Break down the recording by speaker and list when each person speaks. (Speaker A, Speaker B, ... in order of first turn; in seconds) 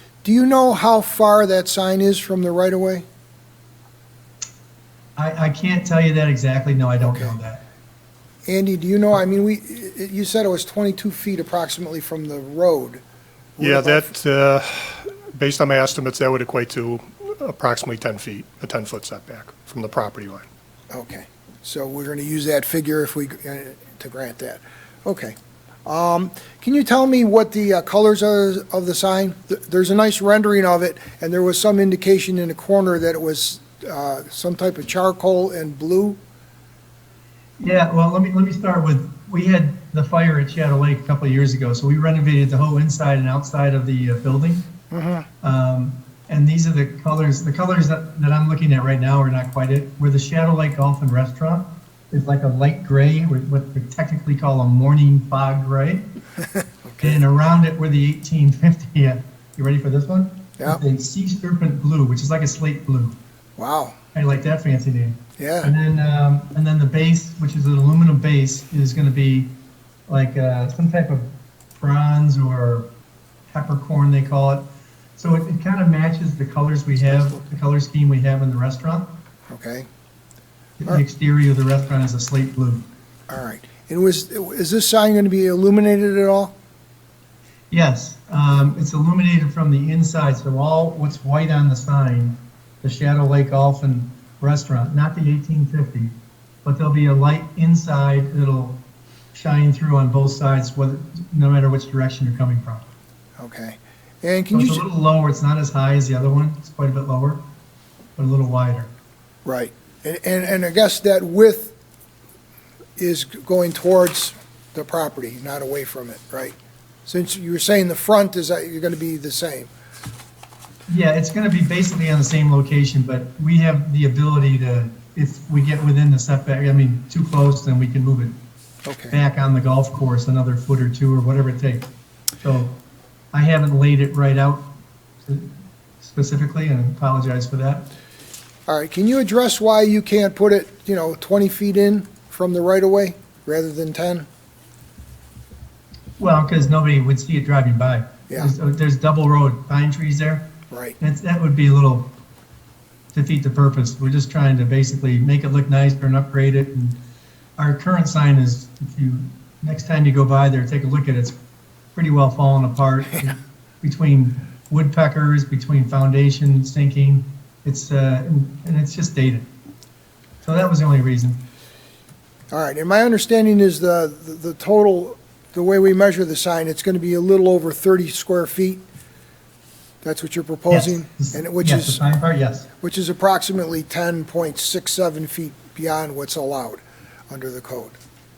Speaker A: 0.2-3.0, 7.0-7.3, 8.5-13.0, 13.6-14.1, 20.9-36.2, 44.9-45.3, 56.9-57.2, 63.6-64.0, 65.4-65.7, 79.5-79.9, 83.3-86.5, 103.4-104.9, 109.4-111.7, 113.0-119.7, 128.8-129.2, 138.7-144.3, 150.7-151.0, 172.5-178.8, 180.0-182.0, 182.8-188.0
Speaker B: 5.2-7.6, 37.6-44.6, 45.4-56.0, 57.0-63.2, 64.1-69.5, 70.1-72.9, 73.5-74.6, 75.2-79.1, 80.8-82.8, 87.7-98.8, 99.3-102.9, 104.5-107.4, 108.2-108.9, 120.9-128.3, 129.1-131.9, 132.4-132.8, 133.3-134.7, 136.0-137.9, 146.2-150.5, 151.0-152.1, 153.1-157.0, 157.6-161.3, 161.9-169.5, 170.4-171.4, 180.7-182.7
Speaker C: 13.6-20.4